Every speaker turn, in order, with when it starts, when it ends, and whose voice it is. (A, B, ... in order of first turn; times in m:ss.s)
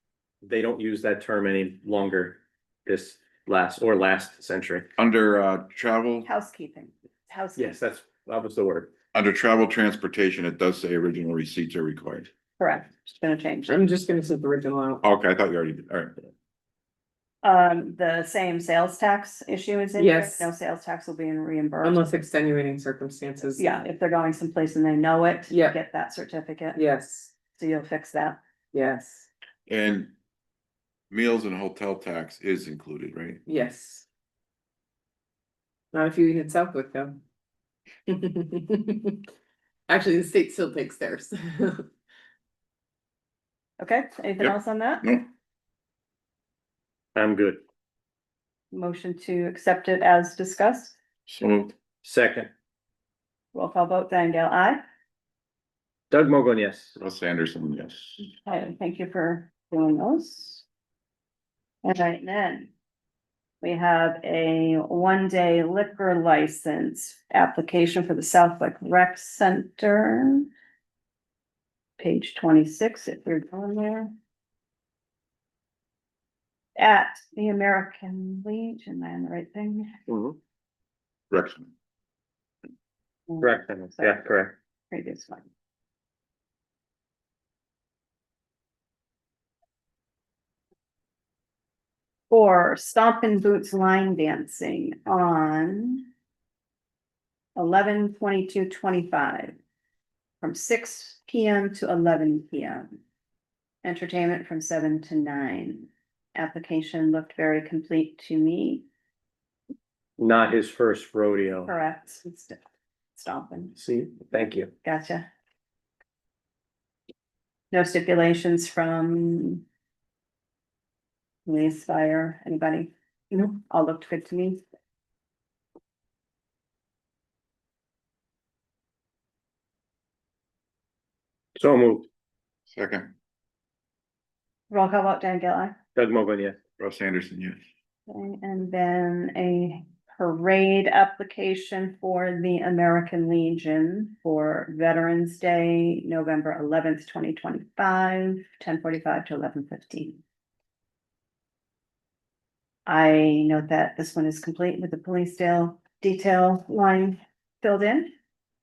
0:00.4-0:04.9 A
0:05.0-0:06.3 B
0:06.2-0:07.8 C
0:07.6-0:08.9 A
0:09.1-0:12.3 B
0:12.6-0:13.8 C
0:13.7-0:15.0 D
0:15.0-0:16.3 B
0:17.4-0:22.0 C
0:20.0-0:20.5 D
0:21.8-0:23.6 D
0:23.6-0:26.8 C
0:25.5-0:25.8 D
0:26.7-0:27.3 D
0:27.5-0:28.4 C
0:28.7-0:29.3 D
0:29.7-0:30.1 B
0:31.1-0:33.4 B
0:33.4-0:34.1 D
0:35.9-0:37.2 D
0:38.1-0:39.2 D
0:39.9-0:41.9 D
0:43.8-0:45.0 C
0:44.4-0:45.3 B
0:47.1-0:47.6 A
0:48.7-0:51.0 C
0:51.2-0:51.7 B
0:52.0-0:52.5 A
0:53.5-0:54.8 C
0:56.1-0:56.9 A
0:57.0-0:58.2 B
0:58.2-1:00.6 C
1:01.8-1:02.7 C
1:03.6-1:10.5 C
1:12.0-1:14.1 C
1:16.8-1:20.0 C
1:20.1-1:20.4 A
1:21.3-1:21.7 B
1:23.3-1:24.3 C
1:23.4-1:24.5 A
1:24.9-1:25.4 C
1:32.3-1:36.0 C
1:37.6-1:39.5 C
1:40.4-1:42.9 C
1:43.8-1:48.8 C
1:50.2-1:51.7 A
1:51.6-1:52.6 C
1:53.2-1:53.8 C
1:53.8-1:54.7 A
1:54.8-1:55.3 C
1:57.7-1:59.6 C
2:01.4-2:02.9 C
2:03.5-2:04.6 C
2:11.5-2:12.0 A
2:12.7-2:13.1 B
2:14.7-2:15.7 C
2:15.9-2:16.6 A
2:16.8-2:17.6 B
2:18.1-2:30.2 C
2:32.8-2:38.1 C